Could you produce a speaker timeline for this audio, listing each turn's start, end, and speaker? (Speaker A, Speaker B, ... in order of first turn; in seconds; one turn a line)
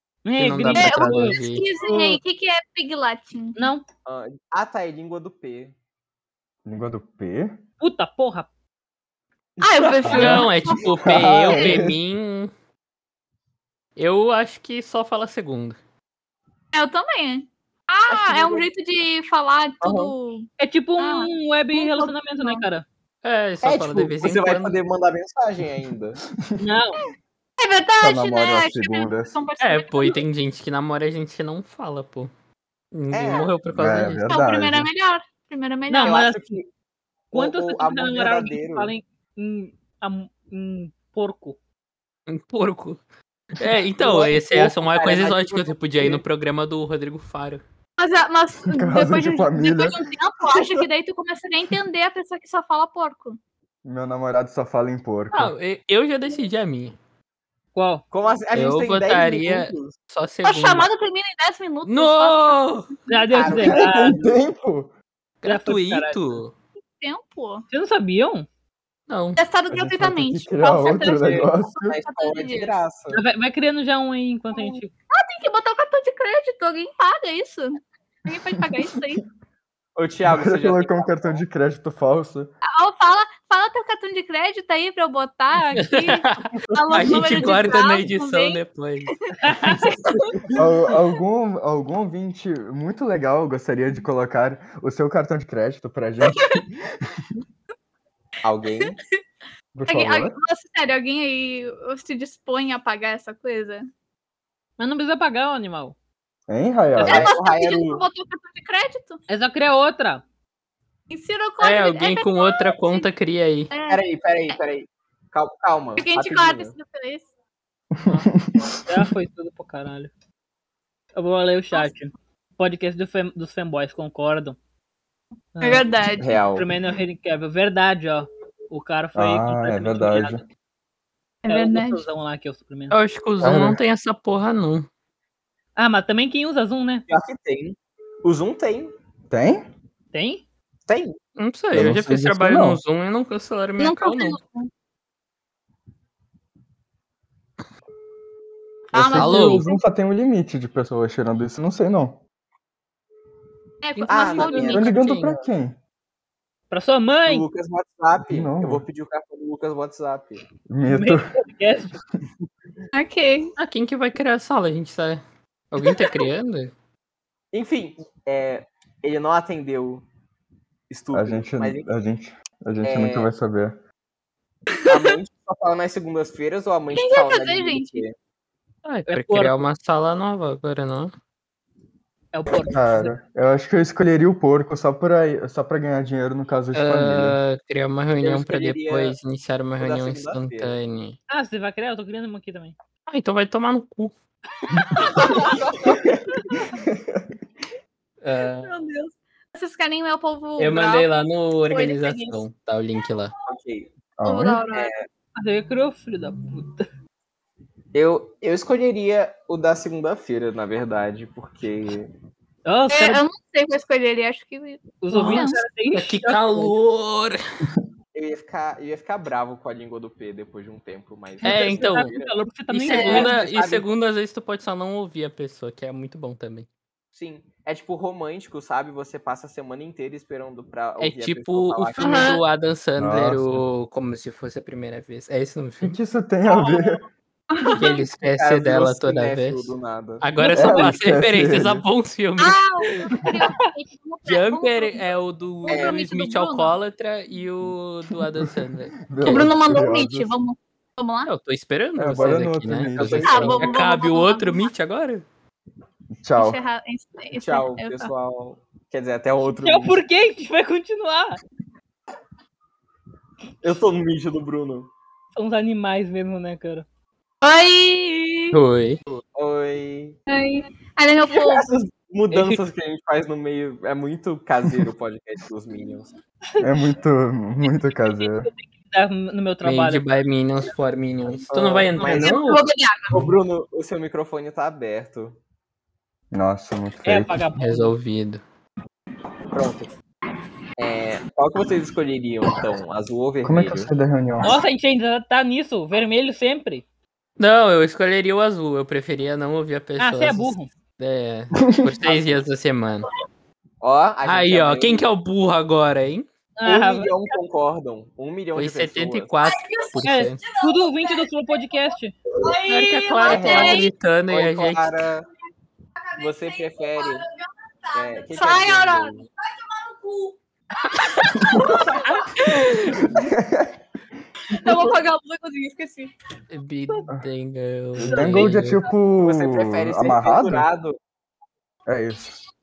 Speaker A: 0.2-2.2
Speaker B: 0.4-1.6
Speaker C: 0.7-3.6
Speaker A: 3.6-3.8
Speaker D: 4.1-5.8
Speaker E: 6.7-7.6
Speaker A: 7.8-8.5
Speaker D: 9.6-10.5
Speaker C: 9.6-10.9
Speaker B: 10.1-12.5
Speaker E: 11.0-12.0
Speaker B: 14.0-15.8
Speaker C: 16.7-22.6
Speaker D: 18.1-18.7
Speaker D: 19.8-20.1
Speaker A: 20.6-22.9
Speaker B: 23.2-24.8
Speaker D: 23.6-26.2
Speaker A: 26.6-27.0
Speaker C: 27.6-30.2
Speaker E: 28.0-29.4
Speaker B: 29.6-32.3
Speaker B: 32.9-34.3
Speaker D: 33.1-33.5
Speaker E: 33.7-34.9
Speaker C: 34.3-36.2
Speaker A: 35.9-36.5
Speaker D: 36.0-36.7
Speaker A: 37.3-41.6
Speaker D: 37.3-38.9
Speaker B: 42.3-43.0
Speaker B: 43.6-47.6
Speaker D: 44.0-46.2
Speaker C: 48.0-53.4
Speaker E: 48.7-50.0
Speaker E: 53.8-55.5
Speaker B: 55.3-57.0
Speaker A: 57.8-58.0
Speaker D: 58.1-60.0
Speaker B: 58.5-60.9
Speaker C: 60.5-62.8
Speaker B: 61.9-62.9
Speaker A: 63.1-64.2
Speaker D: 63.3-64.3
Speaker E: 63.6-64.9
Speaker B: 65.4-66.5
Speaker A: 65.5-66.4
Speaker C: 67.0-67.7
Speaker A: 67.7-68.5
Speaker B: 69.1-69.4
Speaker C: 69.4-72.7
Speaker E: 69.7-72.0
Speaker D: 70.9-73.2
Speaker A: 73.1-74.9
Speaker C: 74.5-79.2
Speaker E: 78.8-79.2
Speaker D: 80.0-81.4
Speaker E: 80.3-82.5
Speaker C: 82.6-88.6
Speaker B: 85.8-89.3
Speaker A: 89.4-89.9
Speaker D: 90.1-90.6
Speaker E: 90.5-97.2
Speaker D: 98.4-99.0
Speaker E: 99.8-100.4
Speaker C: 99.9-103.9
Speaker A: 104.8-106.0
Speaker E: 106.5-107.3
Speaker D: 107.0-108.0
Speaker C: 107.0-109.2
Speaker A: 109.3-110.2
Speaker C: 111.1-113.1
Speaker B: 111.6-113.7
Speaker C: 113.7-114.0
Speaker D: 113.9-116.8
Speaker C: 116.0-117.3
Speaker E: 118.0-119.0
Speaker A: 118.1-118.3
Speaker A: 118.9-120.1
Speaker A: 121.2-124.6
Speaker A: 125.5-125.9
Speaker C: 125.6-126.4
Speaker D: 126.2-126.7
Speaker A: 126.5-130.4
Speaker E: 129.2-130.4
Speaker C: 131.4-132.1
Speaker A: 131.5-132.9
Speaker B: 132.9-134.9
Speaker E: 133.4-133.8
Speaker A: 135.8-137.1
Speaker D: 137.1-138.9
Speaker E: 139.3-139.7
Speaker A: 140.1-140.4
Speaker D: 140.9-141.2
Speaker B: 141.4-144.4
Speaker E: 141.7-142.8
Speaker C: 143.8-144.7
Speaker C: 148.9-149.8
Speaker E: 148.9-152.2
Speaker B: 149.2-149.7
Speaker C: 153.8-155.0
Speaker B: 154.0-155.4
Speaker D: 154.1-154.9
Speaker E: 154.7-155.8
Speaker A: 156.7-157.5
Speaker D: 157.3-160.4
Speaker E: 158.3-158.8
Speaker E: 160.7-161.3
Speaker A: 160.9-162.0
Speaker C: 162.9-163.5
Speaker B: 163.6-166.7
Speaker D: 167.5-170.1
Speaker D: 170.9-171.9
Speaker E: 171.1-173.8
Speaker D: 172.8-173.3
Speaker D: 174.9-178.2
Speaker C: 176.9-178.0
Speaker B: 178.8-181.1
Speaker A: 179.1-179.6
Speaker A: 182.3-183.2
Speaker E: 182.7-187.4
Speaker B: 186.7-191.2
Speaker D: 188.2-189.2
Speaker D: 189.8-190.8
Speaker A: 191.3-192.8
Speaker B: 193.1-194.1
Speaker C: 195.0-195.6
Speaker D: 195.2-196.2
Speaker E: 196.7-197.3
Speaker B: 198.2-198.7
Speaker C: 198.4-201.1
Speaker B: 200.6-203.3
Speaker C: 201.7-202.4
Speaker D: 203.5-203.9
Speaker E: 204.2-204.6
Speaker C: 204.2-204.9
Speaker D: 204.7-205.0
Speaker A: 205.4-206.8
Speaker D: 207.9-212.1
Speaker A: 212.7-213.2
Speaker C: 212.9-215.6
Speaker A: 215.0-216.7
Speaker B: 215.1-217.4
Speaker D: 218.1-223.8
Speaker A: 221.4-223.3
Speaker B: 221.4-222.1
Speaker B: 222.7-226.7
Speaker D: 227.1-232.4
Speaker B: 231.0-236.0
Speaker C: 232.0-232.4
Speaker E: 233.0-233.7
Speaker E: 235.8-237.0
Speaker C: 236.5-237.0
Speaker C: 237.5-238.1
Speaker B: 237.8-242.6
Speaker D: 238.3-240.2
Speaker E: 240.5-241.8
Speaker C: 242.4-245.1
Speaker A: 243.4-243.7
Speaker B: 244.3-249.6
Speaker C: 245.6-246.8
Speaker D: 245.7-246.0
Speaker E: 249.1-250.3
Speaker C: 249.2-251.3
Speaker B: 251.2-255.2
Speaker E: 252.0-253.7
Speaker D: 253.0-253.3
Speaker C: 253.2-254.7
Speaker E: 256.2-256.6
Speaker C: 256.4-258.1
Speaker D: 257.3-260.0
Speaker A: 259.6-261.4
Speaker D: 263.6-264.9
Speaker A: 265.4-266.9
Speaker C: 267.4-268.6
Speaker B: 268.5-269.0
Speaker D: 269.1-270.2
Speaker C: 270.3-271.7
Speaker D: 271.2-276.1
Speaker A: 272.3-272.6
Speaker E: 276.6-278.5
Speaker A: 278.1-280.1
Speaker B: 279.6-282.6
Speaker D: 281.5-282.4
Speaker C: 282.0-283.2
Speaker D: 283.1-285.4
Speaker E: 286.3-287.5
Speaker A: 287.1-287.9
Speaker B: 287.6-288.4
Speaker D: 289.5-289.9
Speaker D: 290.8-293.9
Speaker E: 293.4-294.6
Speaker A: 294.4-296.8
Speaker B: 297.4-303.1
Speaker A: 300.0-300.7
Speaker E: 301.6-302.0
Speaker D: 303.8-305.1
Speaker B: 304.2-306.3
Speaker A: 306.6-307.2
Speaker D: 306.6-309.3
Speaker B: 308.6-310.4
Speaker C: 309.4-311.8
Speaker A: 310.0-312.2
Speaker C: 312.4-313.9
Speaker B: 312.7-315.0
Speaker D: 313.3-315.3
Speaker C: 316.1-320.4
Speaker D: 316.2-317.3
Speaker D: 317.9-319.3
Speaker C: 320.9-323.2
Speaker A: 321.9-322.4
Speaker E: 323.0-323.8
Speaker C: 324.5-326.1
Speaker D: 324.6-324.9
Speaker B: 326.5-328.8
Speaker E: 328.0-330.7
Speaker A: 328.1-328.5
Speaker D: 329.2-331.0
Speaker E: 331.9-332.4